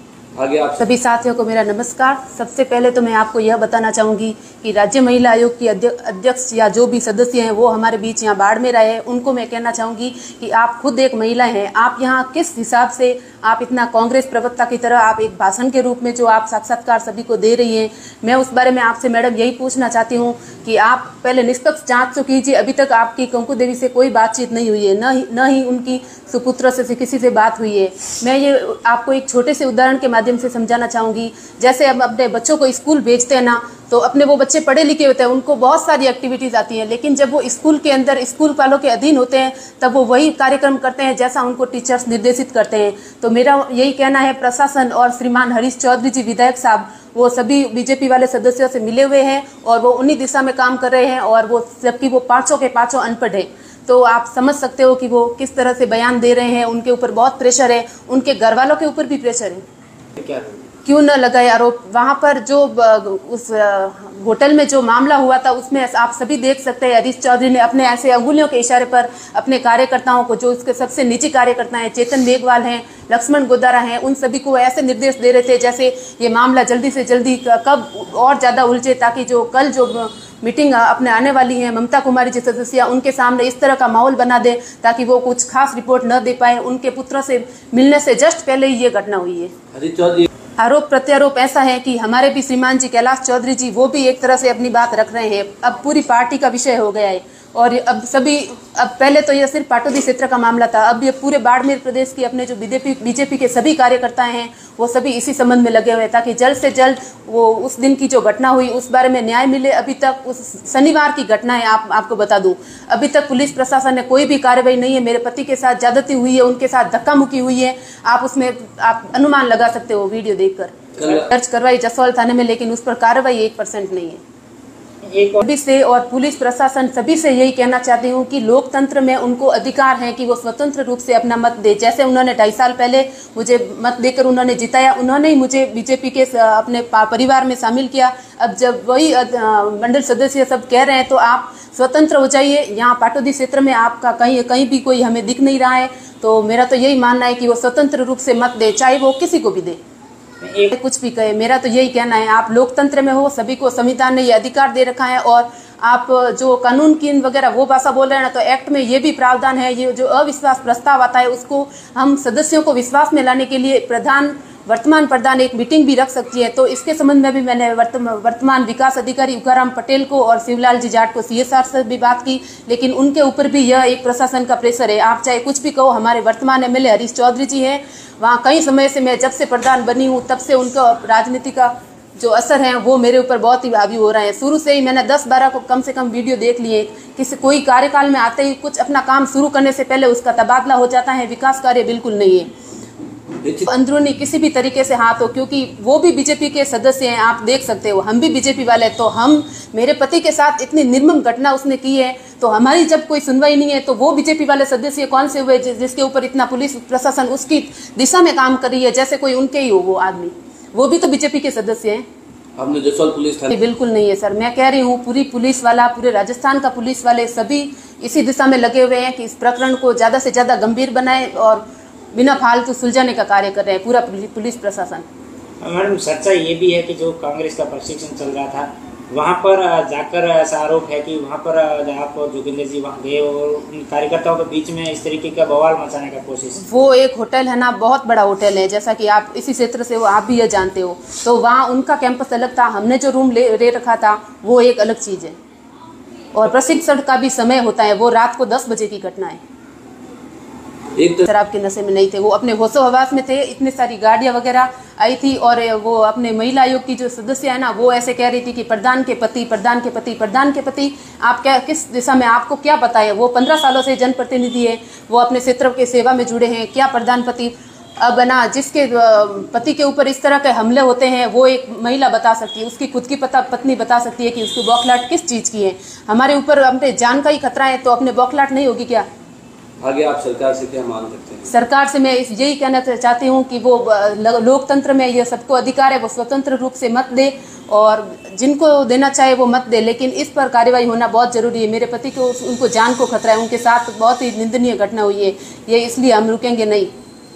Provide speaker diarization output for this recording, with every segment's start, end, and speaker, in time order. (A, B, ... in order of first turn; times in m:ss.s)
0:00.4-0:00.9 A
0:00.8-0:59.6 B
1:00.2-1:00.5 C
1:00.8-1:29.5 B
1:29.7-1:30.3 A
1:30.6-2:04.2 B
2:01.0-2:01.3 A
2:05.0-2:05.4 C
2:05.4-2:29.8 B
2:30.4-2:30.7 C
2:30.7-3:12.5 B
3:13.6-3:32.0 B
3:32.6-3:33.6 A
3:33.5-3:45.0 B
3:45.6-3:56.6 C
3:56.6-4:05.4 B
4:06.3-4:09.4 B
4:11.0-4:11.2 A
4:11.2-4:39.1 B
4:39.8-4:41.5 A
4:41.5-4:56.9 B